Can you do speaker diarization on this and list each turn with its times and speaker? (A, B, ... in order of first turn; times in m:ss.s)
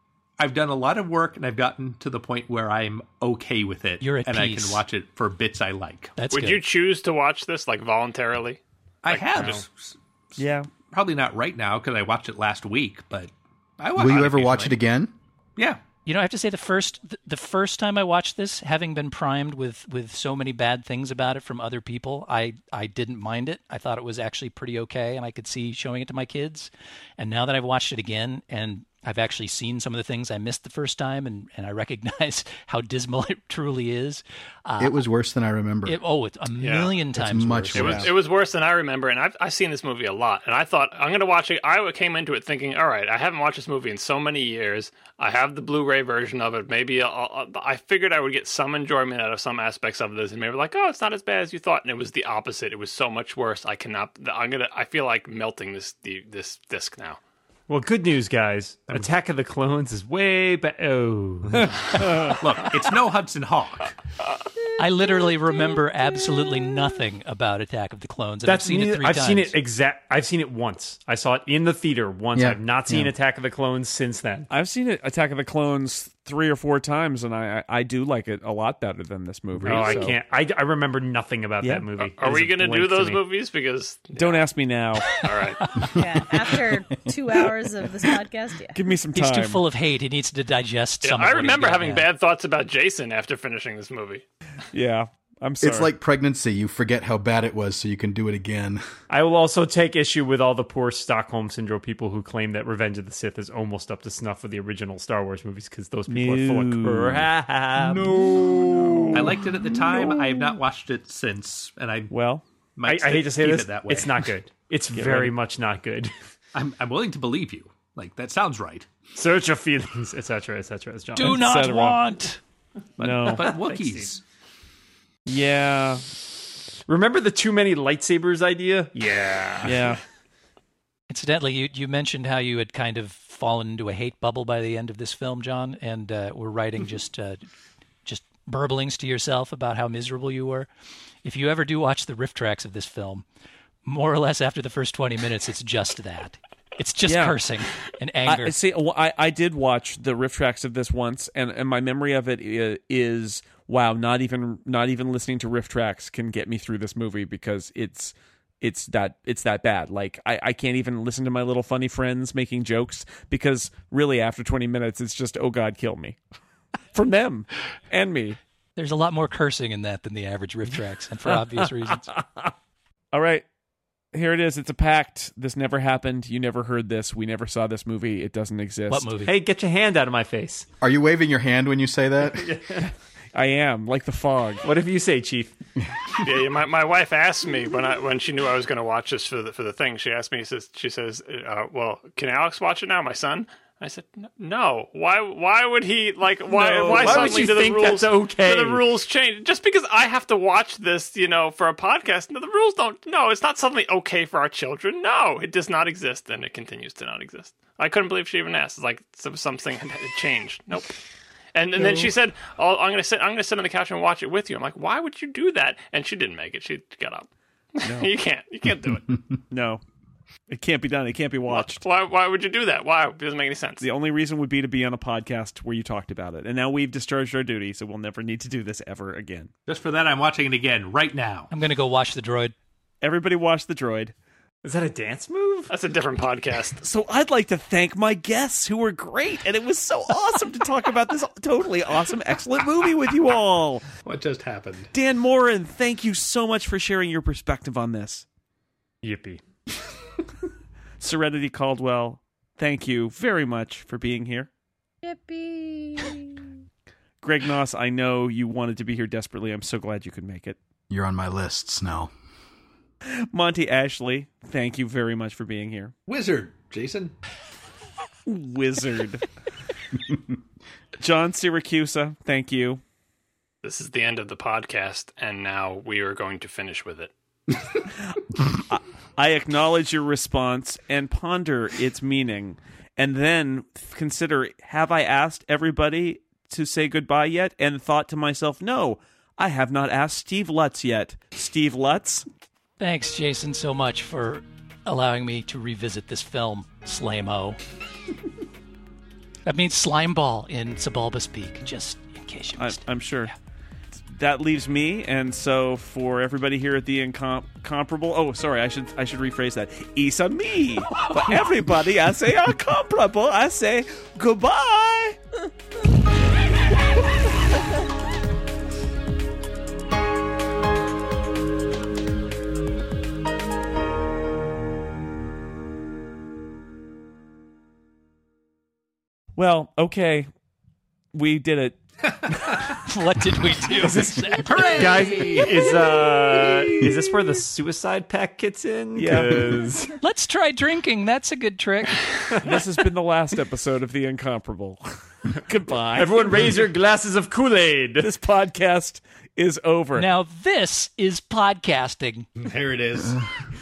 0:00.4-0:06.1 A
0:04.0-0:04.8 B
0:06.2-0:06.6 B
0:06.3-0:09.5 C
0:09.0-0:14.8 A
0:10.4-0:10.7 D
0:14.0-0:15.1 E
0:16.0-0:35.0 B
0:34.8-0:36.0 E
0:35.8-0:38.1 B
0:36.6-0:37.0 C
0:37.1-0:38.1 E
0:37.7-0:57.2 C
0:57.7-1:02.4 F
1:02.0-1:02.3 D
1:02.2-1:03.9 A
1:04.8-1:09.6 B
1:08.4-1:14.5 F
1:12.3-1:13.1 E
1:14.5-1:20.2 D
1:19.6-1:23.2 F
1:19.7-1:20.0 C
1:21.6-1:21.9 D
1:22.2-1:24.5 C
1:24.2-1:25.2 D
1:25.0-1:25.9 B
1:25.1-1:25.6 C
1:25.9-1:28.8 G
1:26.0-1:26.7 E
1:28.7-1:29.6 D
1:29.1-1:32.1 B
1:31.0-1:34.2 C
1:34.7-1:35.9 D
1:35.6-1:38.8 E
1:39.1-1:49.3 F
1:46.1-1:47.3 D
1:47.8-1:49.2 E
1:49.1-1:52.1 A
1:52.1-1:52.4 D
1:52.8-1:54.2 A
1:52.9-1:56.1 F
1:54.9-1:55.3 D
1:56.5-1:58.9 A
1:59.2-2:01.5 F
2:01.1-2:02.4 B
2:01.2-2:02.0 D
2:03.0-2:03.5 D
2:03.0-2:04.2 A
2:03.2-2:04.1 F
2:05.3-2:06.1 D
2:06.9-2:10.0 F
2:09.6-2:10.0 D
2:11.1-2:17.4 B
2:18.0-2:20.7 B
2:21.2-2:23.2 B
2:23.8-2:28.6 B
2:27.0-2:27.4 D
2:28.2-2:46.2 D
2:46.9-2:48.4 D
2:48.8-2:52.1 B
2:51.3-2:52.5 D
2:53.1-2:53.4 D
2:54.1-2:59.1 D
2:58.9-2:59.3 B
2:59.2-3:00.6 F
3:00.8-3:02.6 E
3:02.3-3:02.9 F
3:03.3-3:04.7 D
3:04.6-3:05.5 F
3:06.2-3:30.9 C
3:16.5-3:18.8 F
3:16.7-3:17.9 A
3:31.5-3:39.1 C
3:37.8-3:38.1 D
3:39.5-3:39.8 D
3:40.5-3:41.8 D
3:41.5-3:43.8 C
3:43.8-3:49.5 D
3:49.6-3:51.5 A
3:51.5-3:52.5 B
3:53.0-3:54.1 D
3:54.6-3:55.7 F
3:55.7-3:56.8 C
3:56.8-4:03.9 D
4:04.0-4:04.9 A
4:04.9-4:08.2 D
4:09.0-4:09.4 F
4:11.0-4:14.5 D
4:15.0-4:16.4 G
4:17.2-4:20.6 D
4:20.9-4:22.1 E
4:23.0-4:25.9 D
4:26.0-4:27.1 A
4:28.2-4:29.2 D
4:31.0-4:32.8 D
4:33.6-4:37.1 C
4:37.9-4:52.2 D
4:52.8-4:57.6 B
4:59.4-5:03.3 B
5:02.6-5:03.3 D
5:03.9-5:15.2 D
5:29.4-5:30.3 D
5:31.1-5:32.6 D
5:32.8-5:35.5 B
5:33.8-5:34.1 F
5:34.4-5:37.3 A
5:34.7-5:39.9 F
5:38.9-5:39.6 D
5:40.0-5:42.1 B
5:42.4-5:46.6 D
5:45.9-5:48.1 F
5:48.0-5:50.1 D
5:49.9-5:52.3 B
5:52.4-5:53.2 A